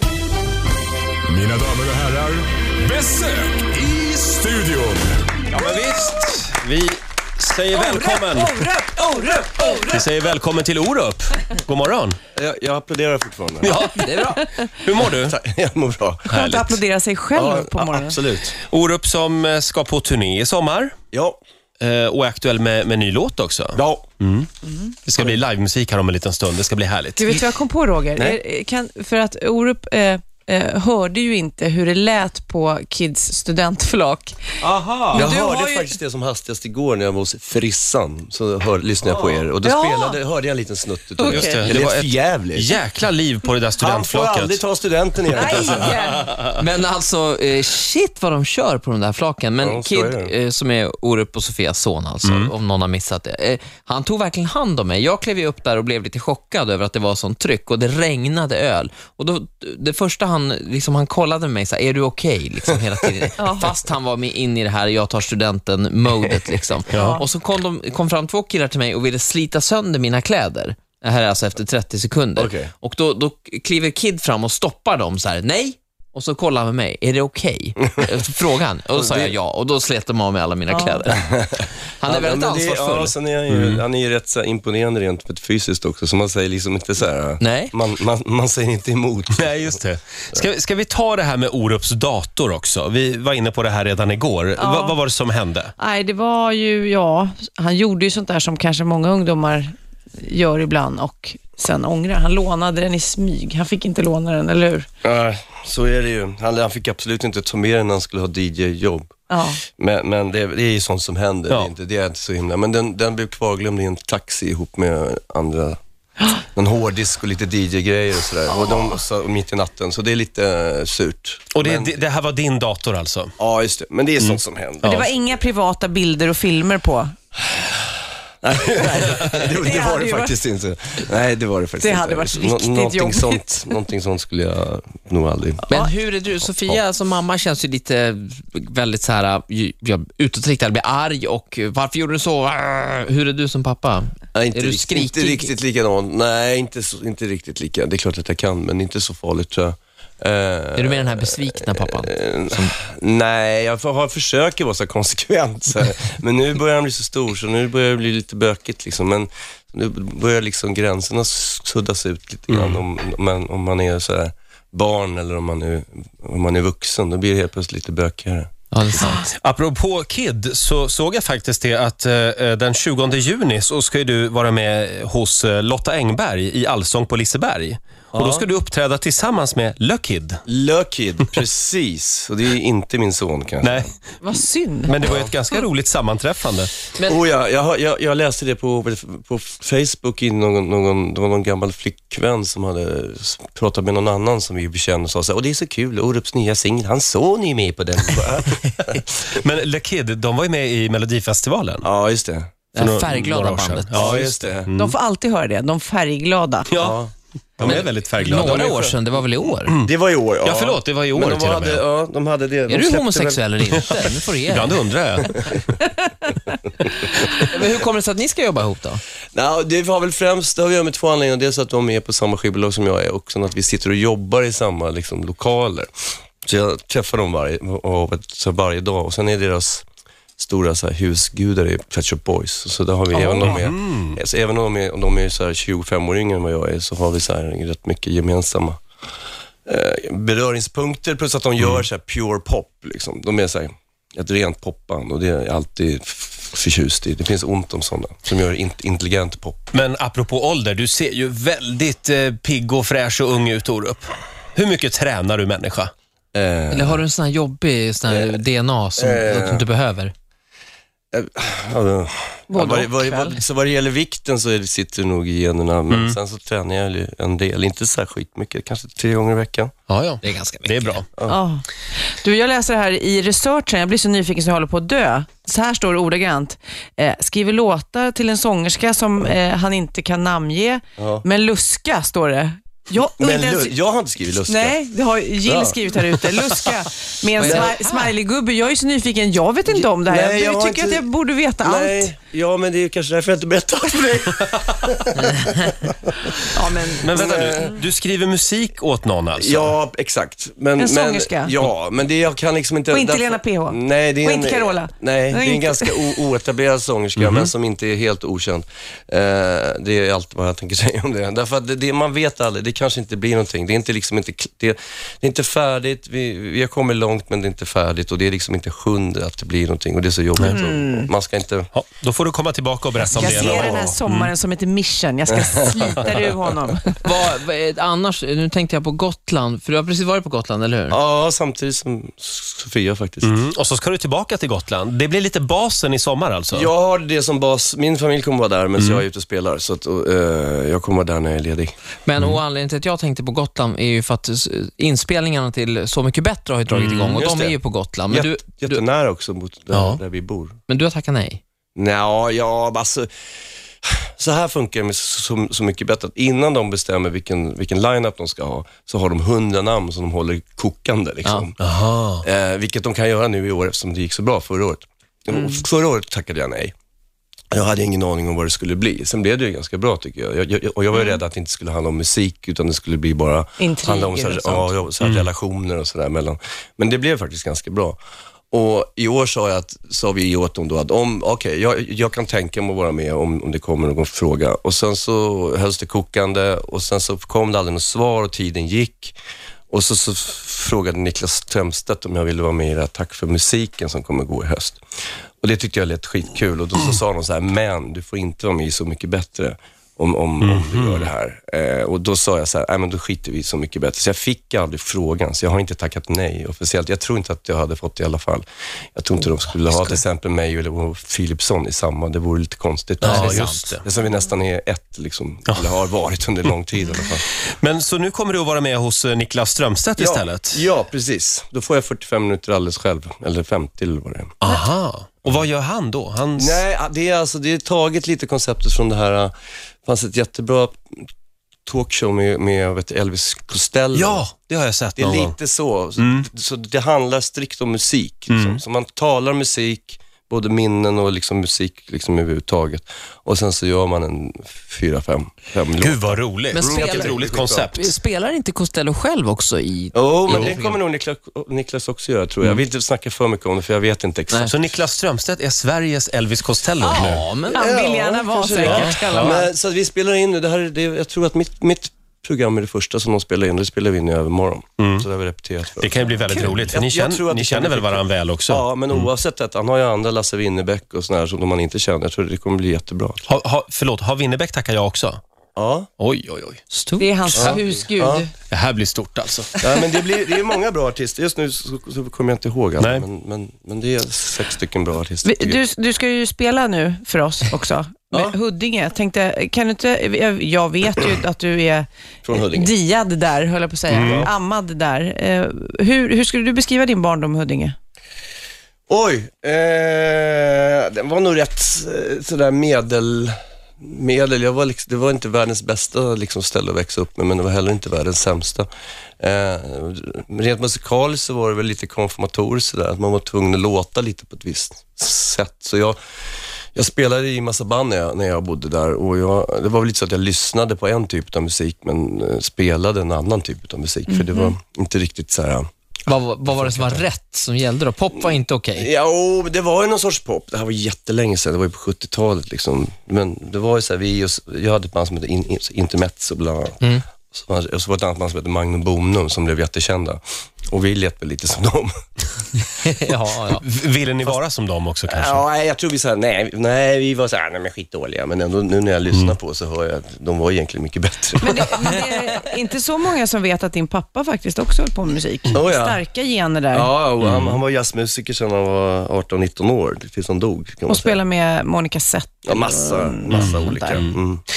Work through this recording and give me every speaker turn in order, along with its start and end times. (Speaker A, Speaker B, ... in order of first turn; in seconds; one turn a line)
Speaker A: 1.3-5.2
Speaker B: 5.5-8.6
Speaker C: 7.7-10.1
Speaker B: 9.9-12.2
Speaker D: 12.3-13.8
Speaker B: 13.6-15.4
Speaker E: 13.9-14.4
Speaker D: 15.1-16.4
Speaker C: 16.3-18.2
Speaker B: 16.3-16.8
Speaker D: 17.3-18.5
Speaker B: 18.6-20.9
Speaker D: 21.1-21.4
Speaker B: 21.8-24.5
Speaker D: 23.7-24.0
Speaker C: 24.7-24.9
Speaker B: 25.0-27.3
Speaker C: 27.2-34.5
Speaker B: 34.6-35.3
Speaker D: 35.1-42.8
Speaker C: 35.1-36.0
Speaker C: 39.6-40.2
Speaker C: 41.2-41.7
Speaker B: 41.3-44.6
Speaker D: 43.8-45.9
Speaker C: 45.3-46.4
Speaker E: 46.4-83.1
Speaker D: 49.6-50.3
Speaker B: 52.2-52.5
Speaker C: 63.4-63.7
Speaker B: 66.9-67.2
Speaker C: 66.9-67.2
Speaker D: 72.3-72.7
Speaker D: 79.0-79.3
Speaker C: 80.7-81.0
Speaker D: 81.1-89.8
Speaker B: 83.5-83.8
Speaker E: 87.4-87.7
Speaker B: 89.3-95.7
Speaker C: 94.6-95.0
Speaker C: 95.8-104.9
Speaker D: 105.0-115.8
Speaker C: 109.3-109.6
Speaker D: 116.5-122.0
Speaker B: 121.5-123.3
Speaker D: 123.4-125.1
Speaker B: 124.2-125.0
Speaker C: 124.8-127.1
Speaker D: 128.4-135.7
Speaker C: 129.3-130.3
Speaker C: 131.8-133.4
Speaker E: 135.7-145.5
Speaker D: 136.4-136.8
Speaker D: 144.3-169.2
Speaker E: 150.8-152.7
Speaker B: 162.5-162.8
Speaker E: 168.7-169.3
Speaker B: 169.1-180.4
Speaker D: 178.1-178.5
Speaker D: 180.5-183.9
Speaker B: 183.6-183.9
Speaker C: 184.2-184.9
Speaker B: 184.8-186.7
Speaker D: 185.0-185.3
Speaker D: 187.1-199.3
Speaker B: 199.3-201.8
Speaker D: 201.8-202.5
Speaker E: 202.7-204.2
Speaker B: 202.8-204.9
Speaker D: 203.9-204.7
Speaker C: 204.7-206.7
Speaker B: 206.7-207.0
Speaker D: 206.8-209.0
Speaker B: 207.6-208.7
Speaker E: 207.6-209.7
Speaker D: 209.8-213.4
Speaker B: 210.4-211.8
Speaker E: 212.7-214.8
Speaker B: 214.5-215.6
Speaker C: 216.0-216.3
Speaker E: 217.3-219.0
Speaker D: 219.3-225.9
Speaker D: 226.4-229.8
Speaker D: 230.4-238.8
Speaker C: 233.2-233.6
Speaker B: 233.4-234.2
Speaker D: 239.6-249.6
Speaker B: 241.6-241.8
Speaker B: 249.7-255.9
Speaker D: 256.3-257.0
Speaker E: 256.7-260.1
Speaker D: 258.1-258.4
Speaker D: 259.0-259.6
Speaker D: 261.1-269.7
Speaker C: 262.5-263.4
Speaker B: 265.9-266.2
Speaker B: 269.9-271.1
Speaker E: 270.2-271.0
Speaker C: 271.3-283.7
Speaker D: 281.0-281.2
Speaker D: 283.2-284.8
Speaker C: 284.4-292.1
Speaker D: 285.4-285.8
Speaker D: 287.4-287.8
Speaker E: 287.4-288.1
Speaker D: 289.6-291.1
Speaker D: 291.6-297.8
Speaker C: 296.4-297.4
Speaker B: 297.0-299.7
Speaker D: 299.4-321.7
Speaker C: 300.8-301.6
Speaker C: 302.9-306.3
Speaker B: 307.2-307.5
Speaker C: 320.4-321.1
Speaker B: 321.7-324.3
Speaker C: 323.1-327.0
Speaker D: 323.2-323.9
Speaker D: 325.5-326.1
Speaker E: 327.0-331.0
Speaker D: 330.9-333.3
Speaker B: 333.2-336.7
Speaker D: 336.5-341.7
Speaker B: 338.8-339.0
Speaker E: 342.1-348.8
Speaker B: 346.7-347.1
Speaker D: 347.1-350.6
Speaker B: 349.7-350.0
Speaker E: 350.7-351.4
Speaker D: 351.8-353.1
Speaker D: 353.8-361.6
Speaker B: 361.6-362.2
Speaker D: 362.2-366.7
Speaker C: 365.3-365.6
Speaker D: 367.5-378.0
Speaker C: 373.6-374.8
Speaker B: 375.0-375.3
Speaker D: 378.5-389.2
Speaker D: 389.7-394.8
Speaker D: 395.4-417.2
Speaker B: 400.4-401.1
Speaker B: 409.7-410.0
Speaker E: 413.0-413.7
Speaker B: 413.0-413.8
Speaker B: 417.4-420.7
Speaker D: 420.0-424.4
Speaker B: 424.4-426.6
Speaker D: 426.4-429.3
Speaker D: 429.8-431.1
Speaker D: 431.6-434.2
Speaker B: 433.9-435.4
Speaker D: 435.0-447.7
Speaker B: 436.0-436.3
Speaker B: 438.3-438.6
Speaker B: 445.8-447.9
Speaker E: 446.5-450.8
Speaker D: 449.9-454.6
Speaker B: 454.5-457.3
Speaker E: 456.8-457.7
Speaker C: 457.5-459.4
Speaker D: 457.6-473.2
Speaker B: 458.6-459.4
Speaker B: 464.8-465.1
Speaker B: 465.8-469.1
Speaker B: 473.2-475.2
Speaker D: 475.6-475.9
Speaker B: 476.0-476.6
Speaker E: 476.7-477.6
Speaker C: 477.0-478.3
Speaker D: 477.3-478.2
Speaker B: 478.5-479.6
Speaker D: 479.6-485.6
Speaker B: 482.8-483.0
Speaker C: 485.2-497.8
Speaker D: 492.2-492.7
Speaker B: 493.9-494.3
Speaker D: 493.9-494.3
Speaker D: 498.9-508.7
Speaker D: 509.2-516.0
Speaker D: 516.7-525.7
Speaker C: 524.1-524.5
Speaker E: 526.1-528.9
Speaker D: 526.7-527.0
Speaker D: 528.7-542.4
Speaker E: 542.8-543.6
Speaker B: 543.6-545.4
Speaker D: 545.1-552.0
Speaker C: 551.4-556.9
Speaker D: 555.5-556.0
Speaker D: 556.7-561.2
Speaker B: 557.2-557.6
Speaker C: 560.9-564.0
Speaker D: 562.5-564.4
Speaker B: 563.3-564.2